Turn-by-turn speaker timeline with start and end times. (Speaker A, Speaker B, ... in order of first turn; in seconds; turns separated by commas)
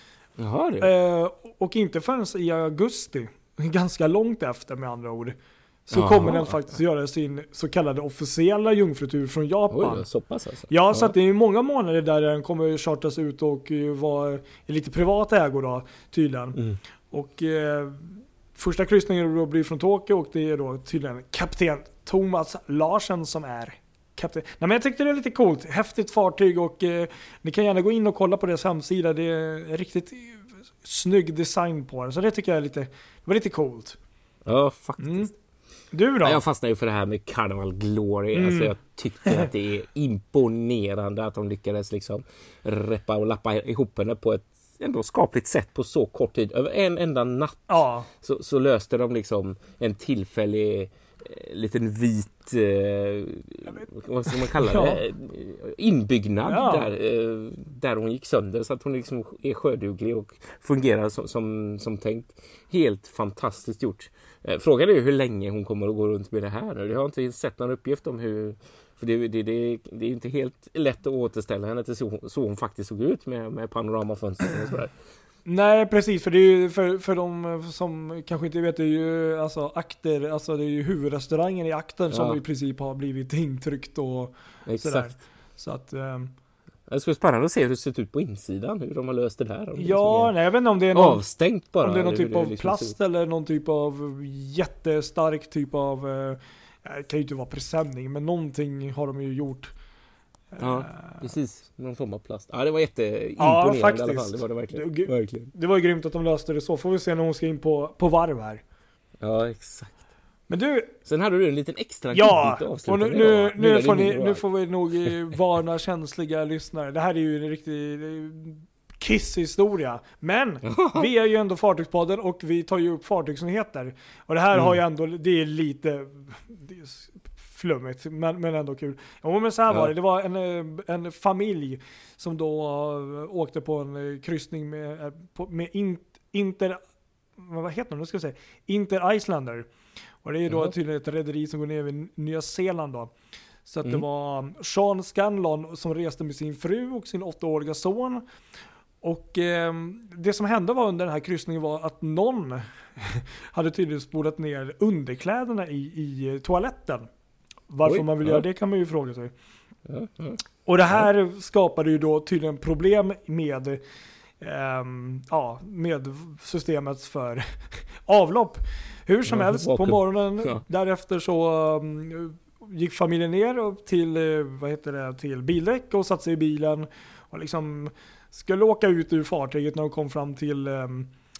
Speaker A: 0.4-0.9, Speaker B: 0.8-5.4, Speaker B: 5.9-10.1, Speaker A: 5.9-6.6, Speaker A: 9.7-11.1, Speaker B: 10.7-16.6, Speaker B: 17.1-34.0, Speaker A: 34.4-35.3, Speaker B: 35.0-35.3, Speaker B: 35.9-36.4, Speaker A: 36.2-75.0, Speaker B: 38.3-39.5, Speaker B: 47.7-48.1, Speaker B: 53.6-55.0, Speaker B: 56.4-56.9, Speaker B: 75.4-86.3, Speaker A: 82.1-82.4, Speaker A: 84.7-85.2, Speaker A: 86.9-90.3, Speaker B: 89.8-91.2, Speaker A: 90.9-92.9, Speaker B: 91.8-99.7, Speaker B: 100.5-101.3, Speaker A: 100.6-105.5, Speaker B: 103.4-108.6, Speaker A: 109.2-110.0, Speaker B: 110.5-110.9, Speaker A: 111.0-114.4, Speaker B: 112.1-136.8, Speaker A: 120.6-121.1, Speaker B: 137.4-139.7, Speaker B: 140.2-143.1, Speaker B: 143.7-148.2, Speaker B: 149.0-157.1, Speaker B: 157.7-159.3, Speaker A: 157.8-158.4, Speaker A: 159.9-160.4, Speaker B: 160.6-163.8, Speaker B: 164.4-181.1, Speaker A: 169.3-170.6